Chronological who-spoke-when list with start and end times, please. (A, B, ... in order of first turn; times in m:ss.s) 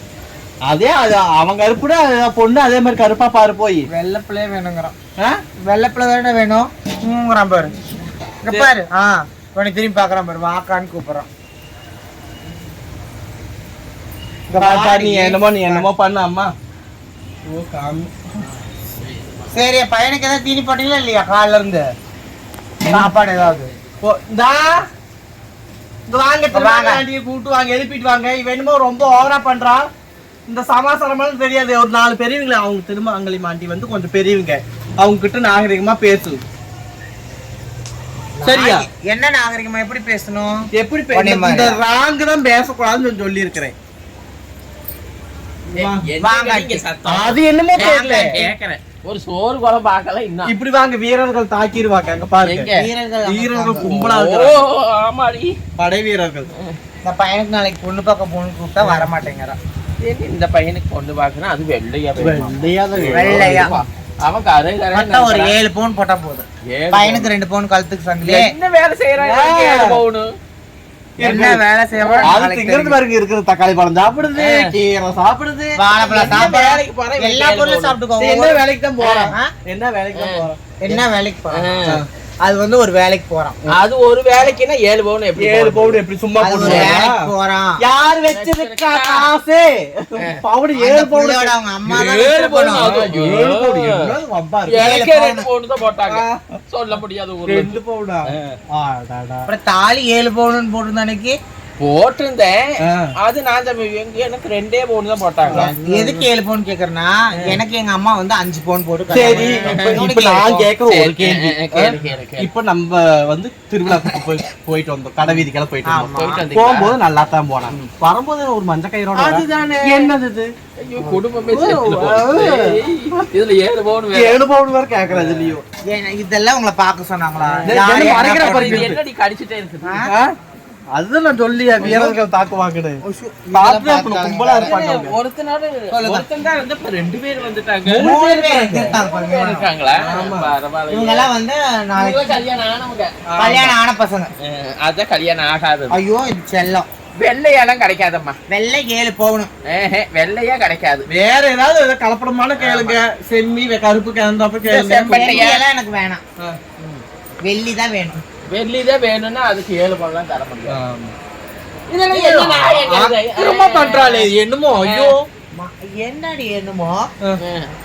0:00.7-0:03.9 A
0:03.9-0:04.9 B
0:05.6-0:07.7 B
0:08.4-0:11.3 B
0:14.5-0:15.9 B
0:14.6-0:16.5 A
0:17.5-0:18.2 A
0:19.5-0:21.9 B
0:22.8-0:23.1 A
0:22.9-0:23.7 B
0:24.0-0:24.8 A
0:26.1-0:29.9 A
0:26.5-0:27.0 B
0:30.5-0:36.4 A
0:38.4-0:41.8 B
0:38.4-0:38.8 A
0:40.7-0:43.7 A
0:45.7-0:46.0 A
0:45.8-0:50.5 C
0:46.2-0:46.8 B
0:47.0-0:48.3 A
0:47.8-0:48.5 B
0:50.4-0:52.7 A
0:52.4-0:52.9 C
0:52.8-0:53.9 B
0:53.2-0:54.6 A
0:53.8-0:55.6 C
0:55.8-0:56.5 A
0:57.0-0:59.6 B
0:58.8-0:59.1 A
1:00.0-1:05.6 C
1:02.2-1:03.8 A
1:03.1-1:03.8 B
1:04.9-1:08.5 B
1:06.7-1:07.3 C
1:08.2-1:10.3 C
1:09.2-1:10.0 A
1:11.2-1:11.6 A
1:11.2-1:13.0 B
1:12.0-1:12.3 C
1:12.2-1:16.6 A
1:14.4-1:14.7 C
1:15.8-1:18.6 B
1:16.0-1:18.0 C
1:18.2-1:20.6 A
1:19.0-1:19.3 C
1:20.2-1:21.0 C
1:20.8-1:21.8 B
1:21.5-1:22.0 C
1:22.4-1:23.6 B
1:23.7-1:26.0 C
1:25.4-1:27.2 A
1:26.4-1:27.8 B
1:26.6-1:27.0 C
1:27.8-1:31.5 A
1:28.1-1:29.3 C
1:30.7-1:32.9 B
1:31.9-1:34.1 C
1:32.8-1:34.9 A
1:34.7-1:37.8 C
1:34.8-1:35.5 B
1:36.1-1:36.5 A
1:37.4-1:39.5 A
1:38.3-1:38.6 C
1:39.5-1:41.4 B
1:41.8-1:42.6 C
1:42.8-1:43.1 A
1:43.2-1:45.7 C
1:45.5-1:46.3 A
1:45.5-1:50.7 B
1:49.1-2:00.5 A
1:49.2-1:50.0 C
1:50.9-1:52.5 C
1:55.9-1:56.4 B
1:56.1-1:57.0 C
1:59.1-2:00.1 C
2:00.8-2:04.4 C
2:01.5-2:02.8 A
2:04.1-2:05.6 A
2:05.0-2:05.6 C
2:05.9-2:08.9 B
2:07.4-2:10.0 C
2:07.6-2:09.0 A
2:09.8-2:10.1 B
2:10.0-2:10.3 A
2:10.9-2:13.0 A
2:11.8-2:12.2 B
2:13.0-2:14.9 B
2:13.5-2:15.2 A
2:14.6-2:18.1 C
2:16.0-2:16.2 B
2:17.8-2:19.0 A
2:18.0-2:19.7 B
2:18.9-2:21.3 C
2:20.0-2:20.5 A
2:20.9-2:22.4 B
2:22.0-2:23.1 C
2:23.3-2:23.7 A
2:23.4-2:24.3 B
2:24.4-2:26.0 C
2:25.9-2:26.9 B
2:27.2-2:28.4 C
2:28.5-2:29.5 B
2:29.7-2:31.1 C
2:31.1-2:35.5 A
2:32.6-2:33.0 C
2:34.7-2:35.6 C
2:34.7-2:36.2 B
2:37.4-2:38.2 B
2:38.5-2:40.8 C
2:40.7-2:41.1 A
2:41.9-2:44.3 C
2:42.1-2:45.2 A
2:44.8-2:45.1 C
2:45.5-2:47.1 B
2:47.4-2:47.7 C